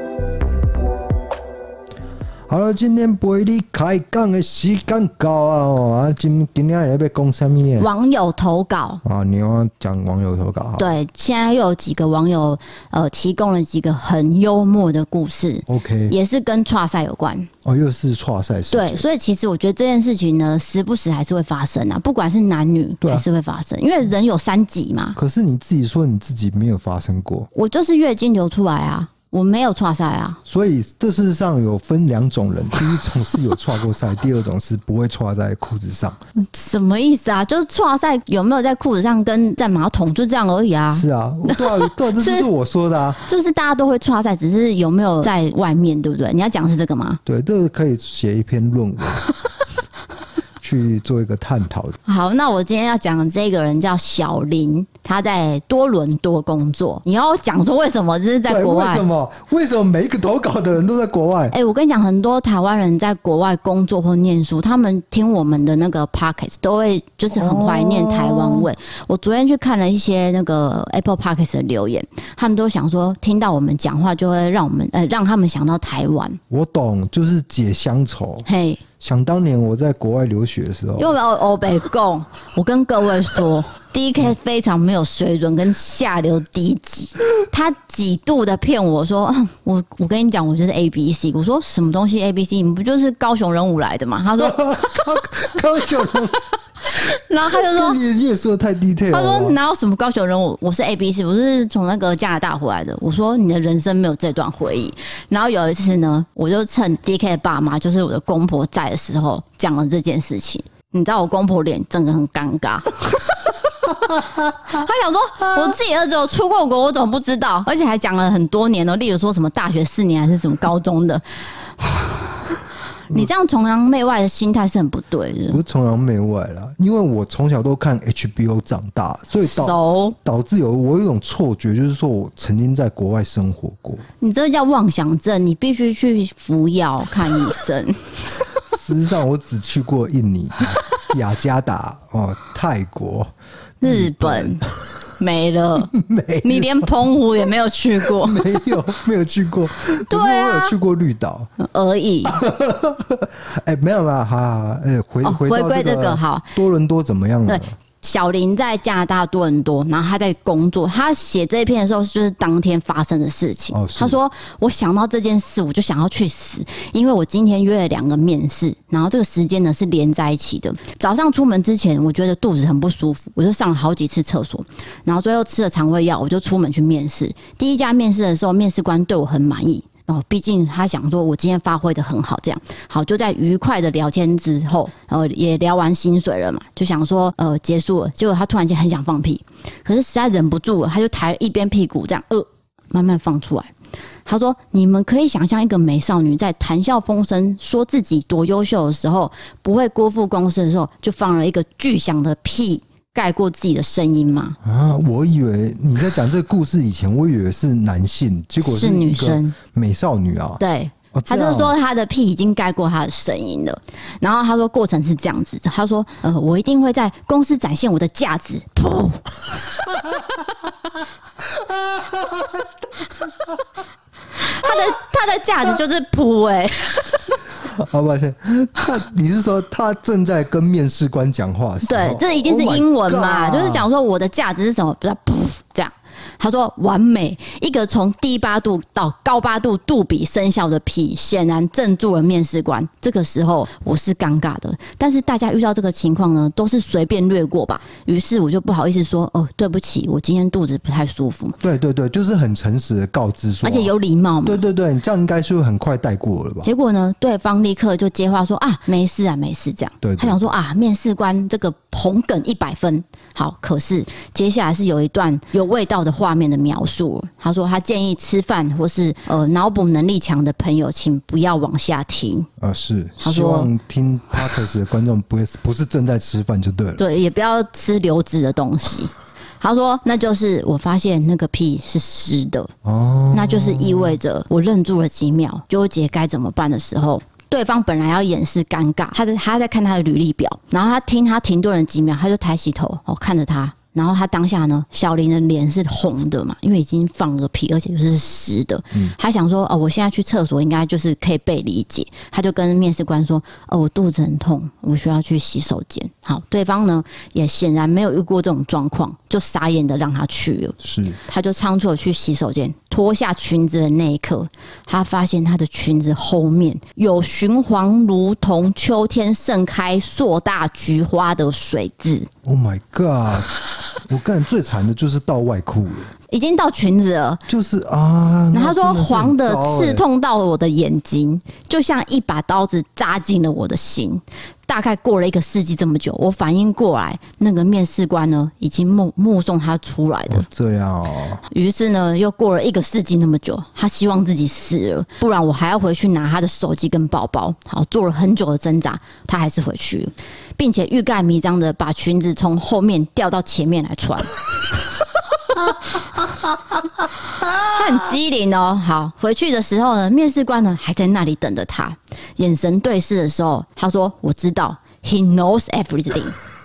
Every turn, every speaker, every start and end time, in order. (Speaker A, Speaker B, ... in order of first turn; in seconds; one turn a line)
Speaker A: 2.5-7.9
Speaker B: 7.8-9.0
Speaker A: 9.0-10.9
Speaker B: 10.8-17.5
Speaker A: 15.7-16.1
Speaker A: 17.6-19.0
Speaker B: 18.7-25.1
Speaker A: 23.0-23.2
Speaker A: 25.1-27.5
Speaker B: 27.5-30.4
Speaker A: 30.5-36.2
Speaker B: 36.4-42.5
Speaker A: 40.9-43.3
Speaker B: 43.3-47.2
Speaker A: 47.2-49.2
Speaker A: 50.6-52.0
Speaker B: 52.0-59.0
Speaker A: 58.5-61.5
Speaker B: 61.5-76.4
Speaker A: 67.3-68.7
Speaker A: 76.5-78.5
Speaker B: 78.5-78.8
Speaker A: 79.0-81.1
Speaker B: 81.0-95.1
Speaker A: 94.4-96.5
Speaker B: 96.8-98.0
Speaker A: 97.5-99.5
Speaker B: 99.1-125.6
Speaker A: 125.5-134.1
Speaker B: 129.4-130.2
Speaker B: 134.2-138.4
Speaker A: 138.7-145.1
Speaker B: 143.8-144.6
Speaker B: 145.2-148.8
Speaker A: 145.9-146.9
Speaker A: 148.0-151.5
Speaker B: 150.1-150.7
Speaker B: 151.6-152.3
Speaker A: 152.3-157.8
Speaker B: 155.2-156.5
Speaker B: 157.4-193.7
Speaker A: 163.7-164.2
Speaker B: 194.2-204.6
Speaker A: 204.6-210.6
Speaker B: 208.6-209.6
Speaker B: 210.6-219.8
Speaker A: 211.1-211.7
Speaker A: 221.7-222.6
Speaker B: 224.4-227.4
Speaker A: 227.7-233.9
Speaker B: 231.8-251.6
Speaker A: 251.6-253.9
Speaker B: 253.6-254.6
Speaker A: 254.4-256.7
Speaker B: 256.6-272.5
Speaker A: 260.0-260.4
Speaker A: 272.6-277.0
Speaker B: 273.2-273.7
Speaker B: 277.0-282.7
Speaker A: 282.8-284.2
Speaker B: 283.3-322.3
Speaker A: 310.8-311.2
Speaker A: 322.4-326.1
Speaker B: 326.3-327.4
Speaker A: 327.5-330.0
Speaker B: 328.5-340.5
Speaker A: 340.3-341.4
Speaker B: 341.5-354.4
Speaker B: 357.6-366.4